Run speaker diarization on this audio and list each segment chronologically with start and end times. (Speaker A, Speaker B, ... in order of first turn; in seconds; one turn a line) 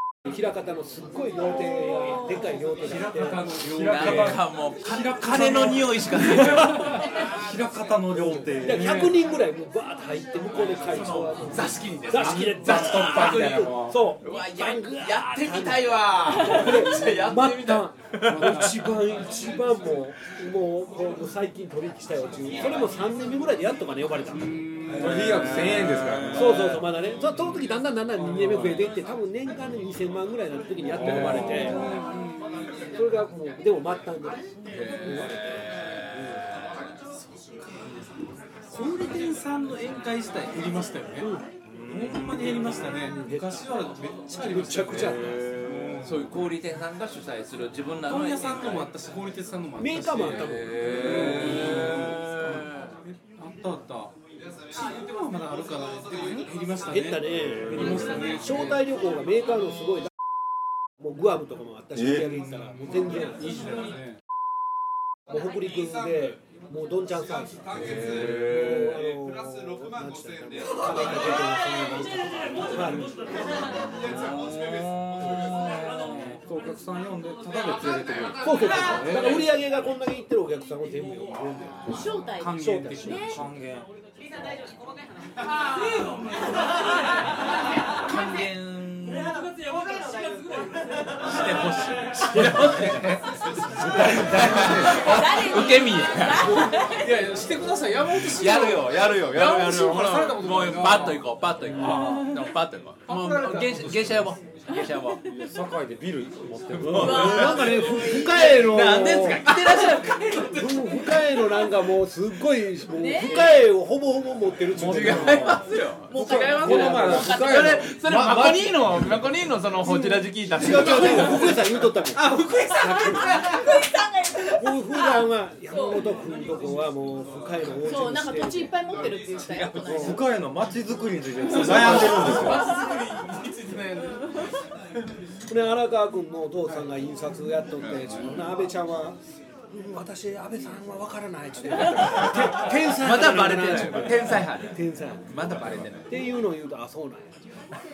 Speaker A: 0.3-3.4
Speaker B: 2.8-9.2
Speaker C: 3.5-7.0
Speaker D: 3.9-4.3
Speaker A: 8.2-24.6
Speaker C: 10.8-18.9
Speaker B: 12.3-14.0
Speaker D: 24.4-25.4
Speaker B: 24.9-26.8
Speaker C: 25.0-26.7
Speaker A: 26.3-31.8
Speaker B: 30.9-31.8
Speaker D: 31.3-32.6
Speaker E: 31.7-32.2
Speaker A: 32.9-34.4
Speaker C: 34.7-35.4
Speaker A: 35.0-36.5
Speaker D: 38.7-41.3
Speaker A: 41.2-41.4
Speaker B: 41.7-42.1
Speaker D: 41.9-46.1
Speaker A: 42.3-43.7
Speaker A: 44.3-45.4
Speaker B: 45.2-46.1
Speaker C: 46.0-48.9
Speaker D: 48.0-54.1
Speaker A: 49.8-52.1
Speaker C: 50.3-52.8
Speaker D: 54.7-58.8
Speaker A: 56.9-60.1
Speaker B: 57.7-58.1
Speaker A: 61.0-63.6
Speaker B: 62.0-62.8
Speaker D: 63.3-64.2
Speaker A: 65.3-73.1
Speaker B: 67.8-69.0
Speaker C: 67.9-68.5
Speaker C: 74.1-76.3
Speaker B: 75.2-75.6
Speaker B: 76.4-78.4
Speaker A: 78.4-82.0
Speaker E: 81.9-83.4
Speaker D: 82.3-83.3
Speaker A: 82.5-83.2
Speaker B: 83.3-83.9
Speaker C: 88.0-89.4
Speaker C: 91.2-93.2
Speaker B: 92.7-93.1
Speaker A: 93.8-95.0
Speaker B: 93.9-94.8
Speaker C: 93.9-96.7
Speaker E: 94.9-97.2
Speaker D: 96.7-101.2
Speaker C: 98.2-105.2
Speaker A: 101.8-102.1
Speaker B: 103.1-104.1
Speaker D: 103.3-103.6
Speaker B: 105.3-107.6
Speaker C: 106.7-111.0
Speaker A: 106.8-109.5
Speaker E: 107.0-108.6
Speaker A: 110.4-115.6
Speaker E: 112.9-113.4
Speaker C: 113.3-113.6
Speaker C: 114.7-122.7
Speaker B: 114.8-115.6
Speaker E: 116.1-117.8
Speaker B: 116.2-118.8
Speaker A: 116.2-117.5
Speaker A: 120.5-123.5
Speaker E: 122.7-126.0
Speaker A: 124.5-128.7
Speaker E: 127.8-130.2
Speaker C: 129.4-129.8
Speaker B: 129.8-132.7
Speaker A: 129.9-130.2
Speaker D: 131.4-134.3
Speaker E: 131.6-132.4
Speaker A: 135.5-139.2
Speaker A: 139.7-145.2
Speaker C: 141.7-146.2
Speaker B: 145.4-145.9
Speaker A: 146.1-147.3